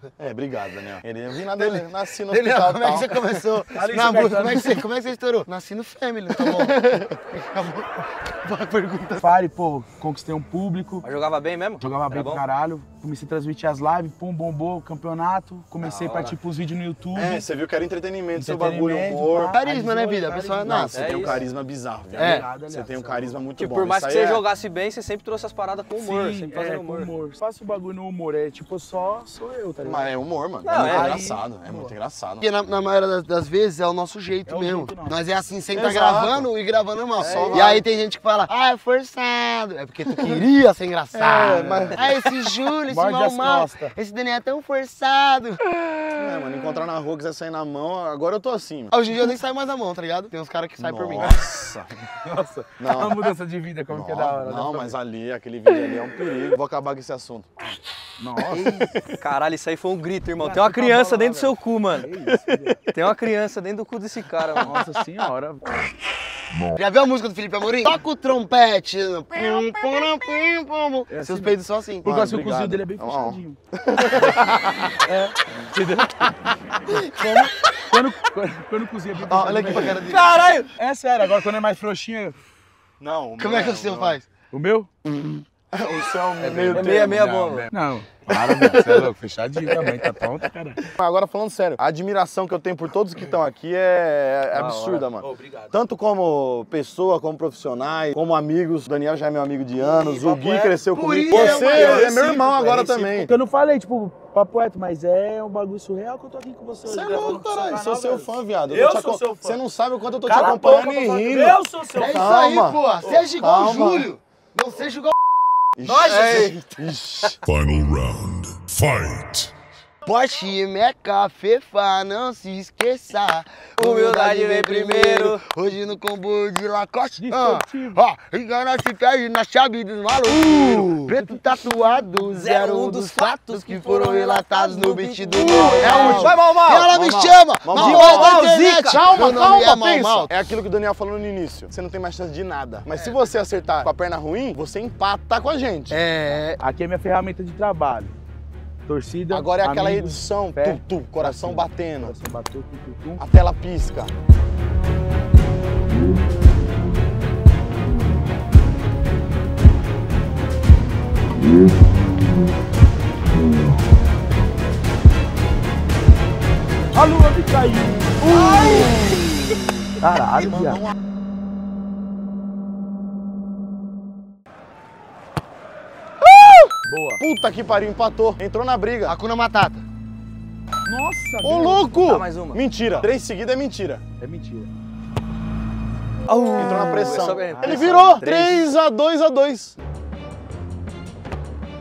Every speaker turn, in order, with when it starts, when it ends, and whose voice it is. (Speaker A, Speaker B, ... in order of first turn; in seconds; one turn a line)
Speaker A: 0.2-3.1
Speaker B: 1.5-9.3
Speaker C: 3.7-4.8
Speaker A: 6.4-7.0
Speaker C: 9.2-11.1
Speaker D: 11.0-12.4
Speaker C: 11.8-17.4
Speaker D: 15.8-16.4
Speaker A: 17.1-19.5
Speaker C: 18.3-21.4
Speaker B: 19.5-21.0
Speaker A: 20.7-24.4
Speaker D: 20.8-21.4
Speaker C: 22.1-23.4
Speaker B: 22.1-22.5
Speaker D: 23.6-27.1
Speaker C: 26.0-30.1
Speaker A: 29.8-32.5
Speaker D: 30.6-31.2
Speaker C: 30.7-31.9
Speaker B: 32.4-45.6
Speaker C: 34.5-35.2
Speaker A: 35.7-36.4
Speaker C: 35.9-36.3
Speaker A: 37.2-37.8
Speaker C: 37.2-37.8
Speaker A: 41.1-42.0
Speaker C: 41.7-42.1
Speaker C: 42.9-43.9
Speaker A: 46.1-48.9
Speaker B: 48.9-51.4
Speaker A: 50.8-51.9
Speaker C: 52.2-55.0
Speaker A: 52.8-53.3
Speaker A: 53.9-57.5
Speaker C: 58.2-58.9
Speaker A: 58.6-59.1
Speaker D: 59.2-62.1
Speaker C: 60.4-62.8
Speaker D: 62.9-64.8
Speaker C: 64.5-65.8
Speaker B: 66.7-72.1
Speaker C: 71.1-73.6
Speaker A: 72.0-75.0
Speaker C: 74.1-74.5
Speaker C: 75.0-76.3
Speaker B: 77.1-77.5
Speaker C: 77.9-80.0
Speaker B: 79.2-80.3
Speaker A: 79.3-79.9
Speaker D: 80.0-80.7
Speaker C: 80.8-82.4
Speaker A: 83.0-84.2
Speaker B: 83.4-84.2
Speaker C: 84.5-84.9
Speaker A: 85.7-87.2
Speaker C: 86.4-90.8
Speaker D: 86.7-87.7
Speaker A: 90.9-103.3
Speaker D: 94.5-95.0
Speaker C: 95.2-95.7
Speaker C: 99.8-109.6
Speaker B: 100.9-102.0
Speaker A: 106.8-114.1
Speaker C: 110.2-112.4
Speaker B: 111.9-115.1
Speaker A: 115.8-117.4
Speaker C: 115.8-116.3
Speaker D: 115.9-116.5
Speaker E: 117.4-119.5
Speaker B: 120.0-140.3
Speaker D: 123.8-125.4
Speaker C: 127.2-128.0
Speaker A: 130.5-131.1
Speaker C: 130.5-132.0
Speaker D: 132.2-136.9
Speaker A: 135.3-136.4
Speaker C: 135.8-136.2
Speaker A: 136.9-146.0
Speaker D: 137.7-139.0
Speaker B: 142.9-143.4
Speaker B: 145.9-146.6
Speaker C: 146.6-148.1
Speaker C: 148.9-153.2
Speaker A: 149.3-152.2
Speaker A: 153.2-154.1
Speaker C: 166.9-169.1
Speaker C: 170.0-170.9
Speaker C: 176.8-177.2
Speaker A: 177.2-179.2
Speaker B: 179.0-179.8
Speaker C: 180.8-181.9
Speaker A: 181.4-184.0
Speaker D: 182.0-182.6
Speaker C: 184.2-184.7
Speaker D: 186.2-188.7
Speaker A: 186.6-189.8
Speaker C: 187.5-187.9